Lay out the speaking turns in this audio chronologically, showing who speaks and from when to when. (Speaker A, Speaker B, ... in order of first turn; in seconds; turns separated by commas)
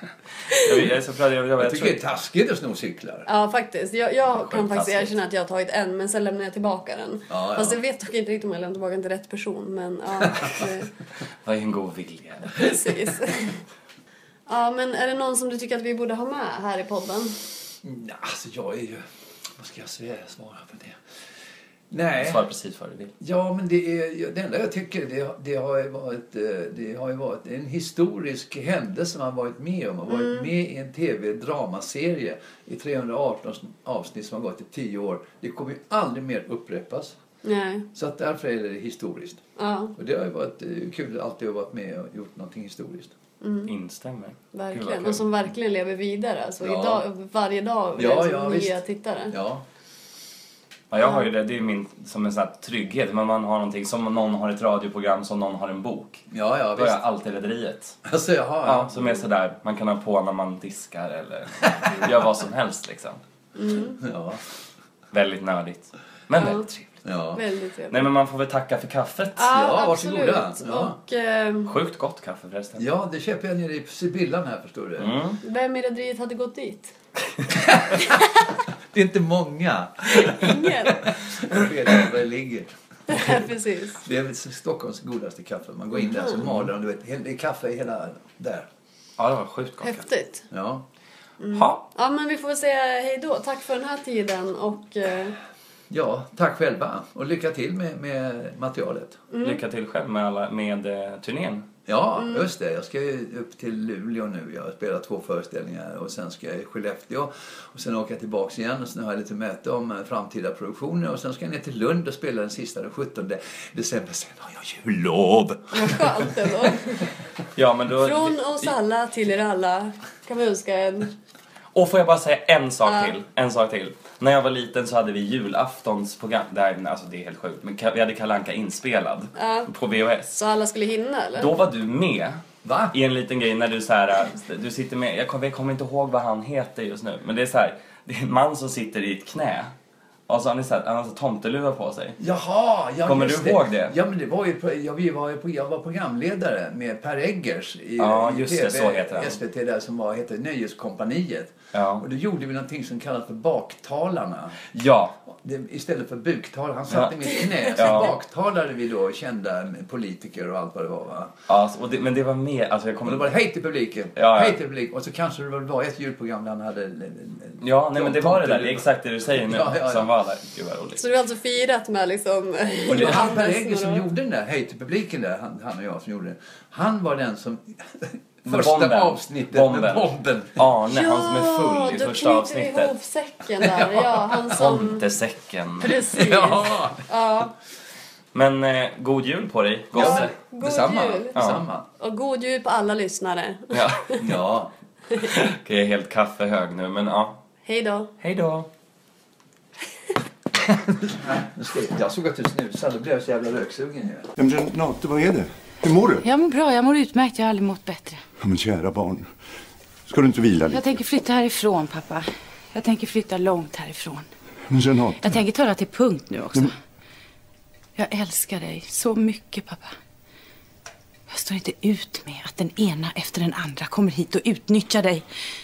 Speaker A: 0.5-2.0, Speaker B: 1.6-3.3, Speaker C: 3.3-10.9, Speaker A: 4.3-5.1, Speaker B: 7.3-7.8, Speaker A: 11.4-12.7, Speaker C: 12.5-13.6, Speaker C: 14.5-17.4, Speaker B: 17.8-19.0, Speaker B: 19.6-21.0, Speaker B: 21.9-22.4, Speaker A: 22.2-23.1, Speaker B: 23.2-37.2, Speaker C: 30.1-30.5, Speaker C: 37.4-37.9, Speaker B: 38.0-39.4, Speaker C: 39.6-39.9, Speaker B: 40.0-43.1, Speaker C: 43.4-43.7, Speaker A: 43.7-45.4, Speaker C: 44.5-49.4, Speaker B: 46.6-47.0, Speaker B: 48.0-48.8, Speaker B: 49.3-49.6, Speaker A: 50.9-58.0, Speaker B: 56.3-57.0, Speaker B: 58.1-59.0, Speaker A: 58.6-63.2, Speaker C: 63.6-64.0, Speaker B: 64.0-64.4, Speaker A: 65.1-67.0, Speaker C: 66.4-66.7, Speaker B: 67.0-67.4, Speaker C: 67.3-68.0, Speaker A: 67.9-69.5, Speaker C: 69.4-71.7, Speaker B: 69.5-71.0, Speaker A: 71.7-72.9, Speaker B: 72.8-75.1, Speaker A: 75.0-75.4, Speaker C: 75.4-76.9, Speaker B: 77.7-78.0, Speaker B: 78.9-88.7, Speaker C: 80.2-81.1, Speaker C: 83.1-84.0, Speaker C: 86.0-86.4, Speaker A: 89.2-90.1, Speaker C: 89.8-90.5, Speaker B: 90.5-90.8, Speaker C: 91.4-95.4, Speaker A: 91.5-91.8, Speaker B: 95.9-99.2, Speaker C: 99.3-99.6, Speaker A: 99.4-101.7, Speaker B: 101.9-116.3, Speaker C: 102.2-102.5, Speaker C: 115.7-117.0, Speaker A: 117.5-118.7, Speaker C: 118.0-121.1, Speaker A: 121.7-130.4, Speaker C: 122.9-123.1, Speaker C: 129.4-129.7, Speaker C: 130.3-131.5, Speaker A: 131.4-139.7, Speaker B: 132.6-132.9, Speaker A: 140.3-142.2, Speaker B: 142.2-154.6, Speaker A: 143.1-144.0, Speaker A: 148.0-149.4, Speaker A: 151.7-152.1, Speaker A: 154.7-155.2, Speaker B: 155.3-161.3, Speaker A: 156.9-158.2, Speaker A: 161.5-163.3, Speaker B: 163.1-170.1, Speaker A: 164.2-164.6, Speaker A: 167.6-171.0, Speaker C: 171.0-174.1, Speaker B: 172.9-180.7, Speaker A: 178.5-182.9, Speaker C: 180.9-185.0, Speaker A: 183.8-186.0, Speaker C: 185.8-187.5, Speaker B: 186.1-187.0, Speaker A: 188.3-190.3, Speaker B: 189.9-191.9, Speaker C: 190.0-191.4, Speaker A: 191.3-191.7, Speaker C: 192.0-194.2, Speaker A: 193.7-194.3, Speaker B: 194.2-194.7, Speaker A: 195.2-197.4, Speaker C: 197.7-198.1, Speaker A: 198.2-198.7, Speaker B: 200.8-204.3, Speaker D: 204.4-206.2, Speaker E: 206.2-208.2, Speaker D: 208.4-209.3, Speaker D: 210.1-210.9, Speaker E: 210.7-214.3, Speaker D: 214.7-215.4, Speaker E: 215.2-216.8, Speaker E: 218.0-220.0, Speaker E: 221.3-225.3